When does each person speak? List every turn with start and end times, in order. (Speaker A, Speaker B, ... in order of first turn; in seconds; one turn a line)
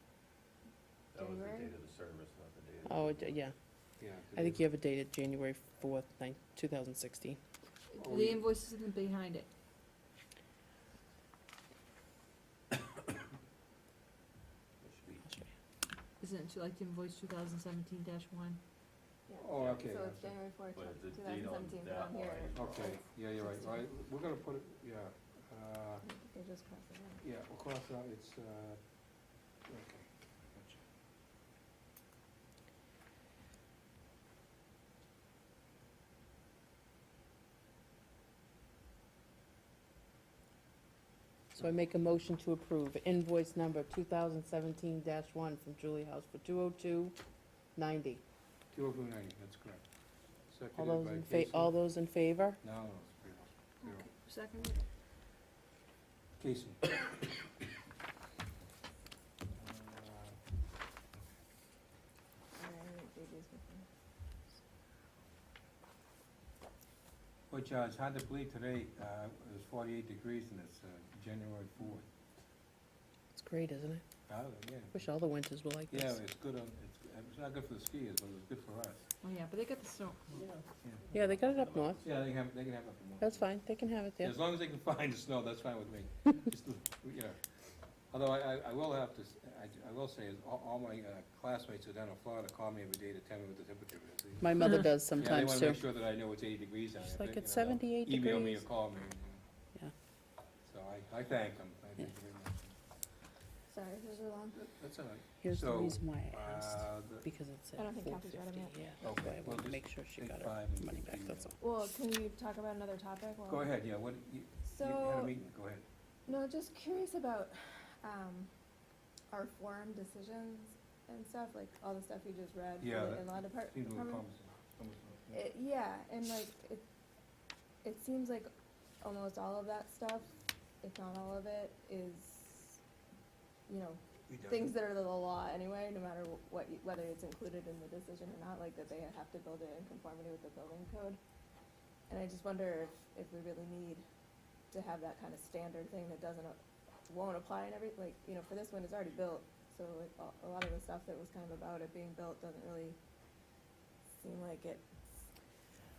Speaker A: 1.1-3.3
Speaker B: 1.1-1.7
Speaker C: 2.9-3.5
Speaker D: 4.0-4.6
Speaker C: 4.3-7.4
Speaker E: 7.9-9.5
Speaker D: 8.0-8.5
Speaker A: 14.8-15.3
Speaker E: 16.2-18.6
Speaker B: 19.3-22.9
Speaker D: 19.4-20.4
Speaker A: 20.7-22.9
Speaker D: 22.5-26.1
Speaker B: 26.0-27.2
Speaker D: 27.2-28.8
Speaker D: 29.7-30.8
Speaker C: 41.5-47.2
Speaker C: 47.8-48.2
Speaker D: 48.7-49.8
Speaker D: 50.5-51.8
Speaker C: 50.8-52.6
Speaker D: 52.6-54.1
Speaker E: 53.8-54.8
Speaker D: 56.4-57.0
Speaker D: 59.5-60.4
Speaker B: 62.5-63.9
Speaker D: 67.5-72.0
Speaker C: 73.3-74.0
Speaker D: 74.3-75.1
Speaker C: 74.9-76.2
Speaker D: 75.9-79.0
Speaker E: 79.2-80.4
Speaker D: 80.8-81.2
Speaker C: 81.1-82.0
Speaker A: 81.6-82.0
Speaker D: 82.0-83.5
Speaker C: 83.2-84.4
Speaker D: 84.2-87.4
Speaker D: 88.1-94.6
Speaker C: 94.4-95.9
Speaker D: 95.2-99.4
Speaker C: 97.0-98.7
Speaker D: 100.7-102.8
Speaker B: 103.7-104.6
Speaker D: 104.5-107.2
Speaker C: 105.4-111.6
Speaker B: 107.8-108.8
Speaker D: 109.0-111.5
Speaker B: 111.6-113.7
Speaker D: 113.5-115.8
Speaker B: 114.7-115.3
Speaker B: 116.3-118.5
Speaker B: 119.3-124.2
Speaker D: 122.8-125.4
Speaker B: 125.3-126.8
Speaker B: 127.8-128.5
Speaker B: 129.0-130.3
Speaker B: 130.8-132.8
Speaker B: 133.7-141.2
Speaker D: 134.3-134.7
Speaker B: 142.1-144.0
Speaker B: 144.7-153.0
Speaker B: 154.2-154.9